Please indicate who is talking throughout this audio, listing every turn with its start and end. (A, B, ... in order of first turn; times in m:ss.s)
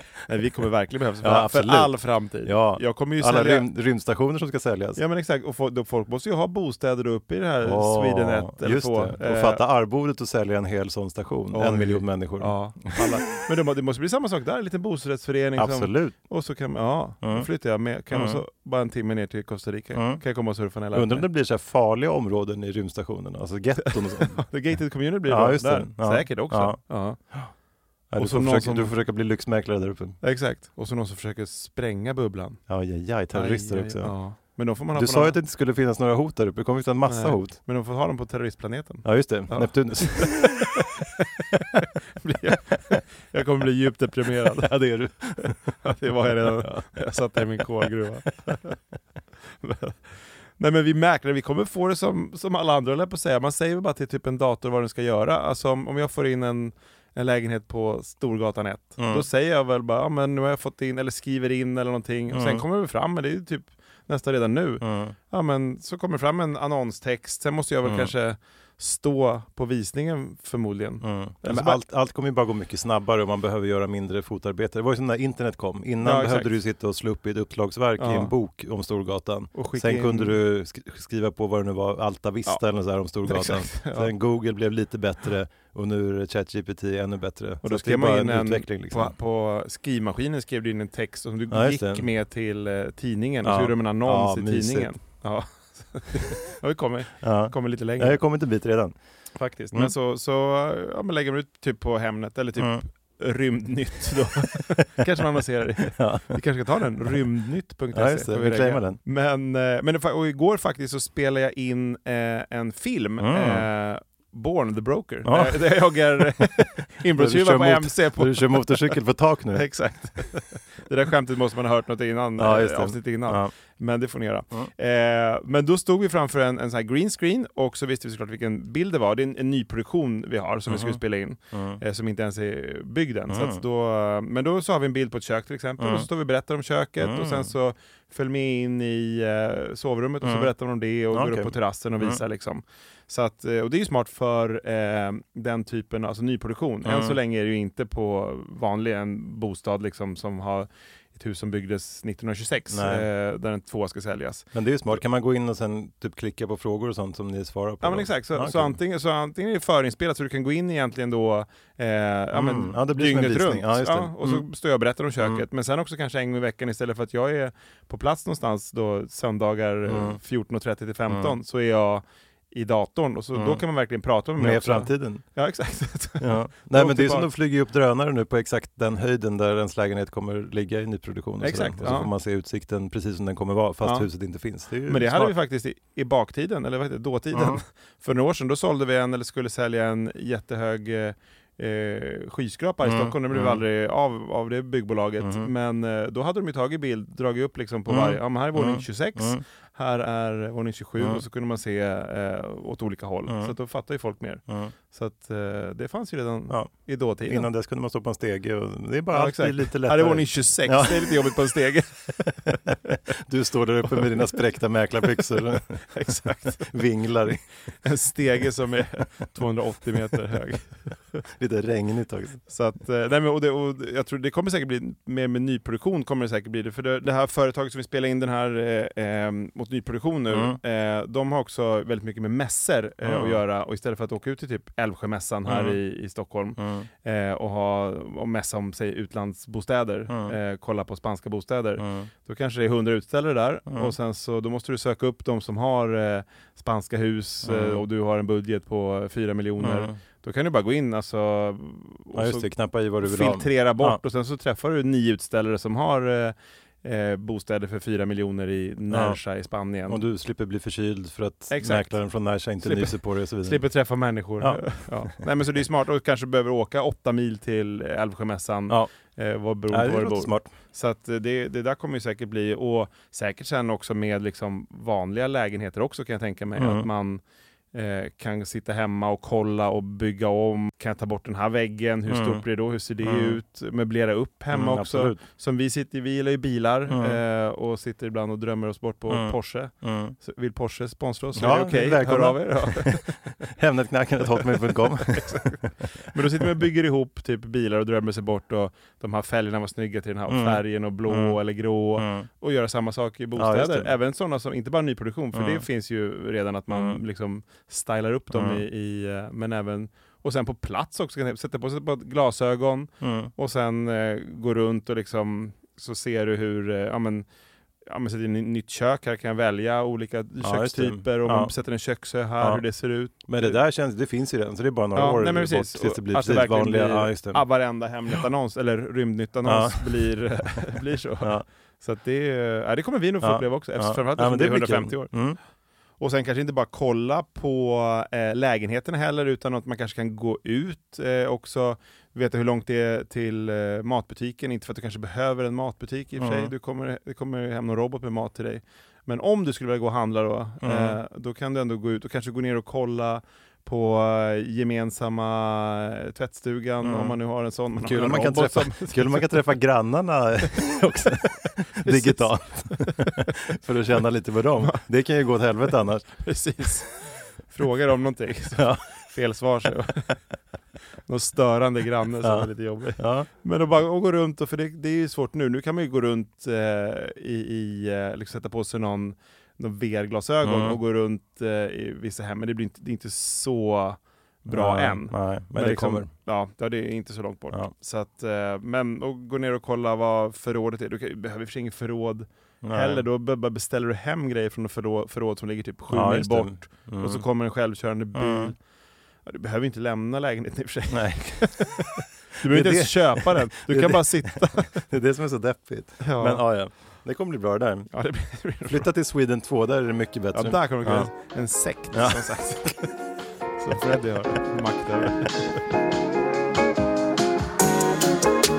0:00.3-0:03.7 A
0:01.2-0:05.0 B
0:05.0-0:09.6 A
0:07.6-0:13.1 B
0:11.5-0:21.3 A
0:15.6-0:16.2 B
0:17.2-0:17.5 B
0:18.1-0:18.4 B
0:20.0-0:20.2 B
0:20.9-0:24.5 B
0:23.9-0:27.2 A
0:25.3-0:26.8 B
0:28.1-0:30.2 B
0:28.2-0:28.9 A
0:30.2-0:32.6 A
0:32.7-0:34.2 B
0:33.3-0:35.4 A
0:34.9-0:37.6 B
0:37.1-0:41.2 A
0:39.0-0:40.8 B
0:41.8-0:44.8 A
0:44.6-0:45.7 B
0:45.4-0:48.8 A
0:46.4-0:47.0 B
0:49.6-0:50.0 A
0:50.6-1:11.8 A
0:59.0-0:59.3 B
1:02.3-1:02.6 B
1:04.8-1:05.1 B
1:07.8-1:08.1 B
1:11.0-1:29.1 B
1:16.0-1:16.5 A
1:18.0-1:18.3 A
1:19.6-1:20.3 A
1:23.2-1:24.1 A
1:27.6-1:38.2 A
1:31.5-1:32.1 B
1:33.4-1:34.9 B
1:37.2-1:38.9 B
1:39.4-1:59.0 A
1:46.0-1:46.4 B
1:47.9-1:49.0 B
1:53.2-1:53.7 B
1:55.2-1:55.6 B
1:56.2-1:56.5 B
1:57.2-1:59.7 B
1:59.5-2:34.5 A
2:02.4-2:03.5 B
2:10.7-2:11.0 B
2:11.5-2:11.8 B
2:13.3-2:13.6 B
2:15.8-2:16.1 B
2:17.0-2:17.5 B
2:20.2-2:20.5 B
2:21.1-2:22.2 B
2:26.8-2:27.2 B
2:32.7-2:33.1 B
2:34.5-2:38.8 B
2:37.8-2:57.3 A
2:42.3-2:44.4 B
2:45.2-2:45.4 B
2:49.9-2:50.2 B
2:51.1-2:51.4 B
2:53.4-2:53.6 B
2:54.4-2:55.2 B
2:56.2-3:05.3 B
3:01.4-3:02.1 A
3:04.9-3:27.5 A
3:07.3-3:07.6 B
3:12.8-3:13.6 B
3:15.2-3:15.5 B
3:17.9-3:19.4 B
3:21.0-3:21.2 B
3:23.3-3:23.6 B
3:24.5-3:24.7 B
3:27.3-3:31.3 B
3:29.1-3:32.6 A
3:32.5-3:35.8 B
3:33.9-3:34.2 A
3:35.9-3:36.8 A
3:36.7-3:37.4 B
3:37.8-3:41.2 A
3:41.4-3:42.4 B
3:42.5-4:12.5 A
3:50.3-3:50.6 B
3:53.0-3:53.4 B
3:55.5-3:55.8 B
3:56.6-3:56.9 B
4:00.1-4:00.4 B
4:01.8-4:02.1 B
4:03.7-4:04.0 B
4:07.4-4:07.9 B
4:09.6-4:09.9 B
4:12.1-4:14.0 B
4:13.0-4:20.0 A
4:18.9-4:19.2 B
4:19.9-4:23.6 B
4:21.5-4:22.0 A
4:22.6-4:37.2 A
4:24.4-4:24.8 B
4:29.7-4:30.5 B
4:36.6-4:36.9 B
4:37.7-4:53.2 A
4:42.1-4:42.4 B
4:43.0-4:43.4 B
4:44.5-4:45.2 B
4:46.9-4:47.2 B
4:49.1-4:50.2 B
4:51.4-4:55.5 B
4:54.5-5:17.3 A
5:00.3-5:01.4 B
5:02.0-5:02.3 B
5:03.4-5:03.9 B
5:05.3-5:05.6 B
5:06.7-5:07.0 B
5:08.3-5:08.6 B
5:13.0-5:13.3 B
5:17.9-5:23.6 A
5:20.4-5:21.5 B
5:22.4-5:22.6 B
5:23.3-5:27.4 B
5:25.0-5:35.3 A
5:29.4-5:29.9 B
5:33.2-5:35.4 B
5:36.0-5:59.5 A
5:46.2-5:46.5 B
5:50.6-5:51.0 B
5:56.8-5:57.2 B
5:57.8-6:06.2 B
6:01.8-6:03.3 A
6:06.2-6:10.2 A
6:08.5-6:08.8 B
6:11.1-6:38.6 A
6:12.2-6:13.3 B
6:20.4-6:20.8 B
6:24.5-6:26.1 B
6:32.6-6:33.0 B
6:35.9-6:37.3 B
6:38.1-6:38.5 B
6:39.2-6:44.9 A
6:40.9-6:48.0 B
6:46.0-6:46.7 A
6:47.9-6:48.9 A
6:48.6-6:51.1 B
6:50.3-6:53.0 A
6:51.9-6:52.2 B
6:53.6-6:55.6 A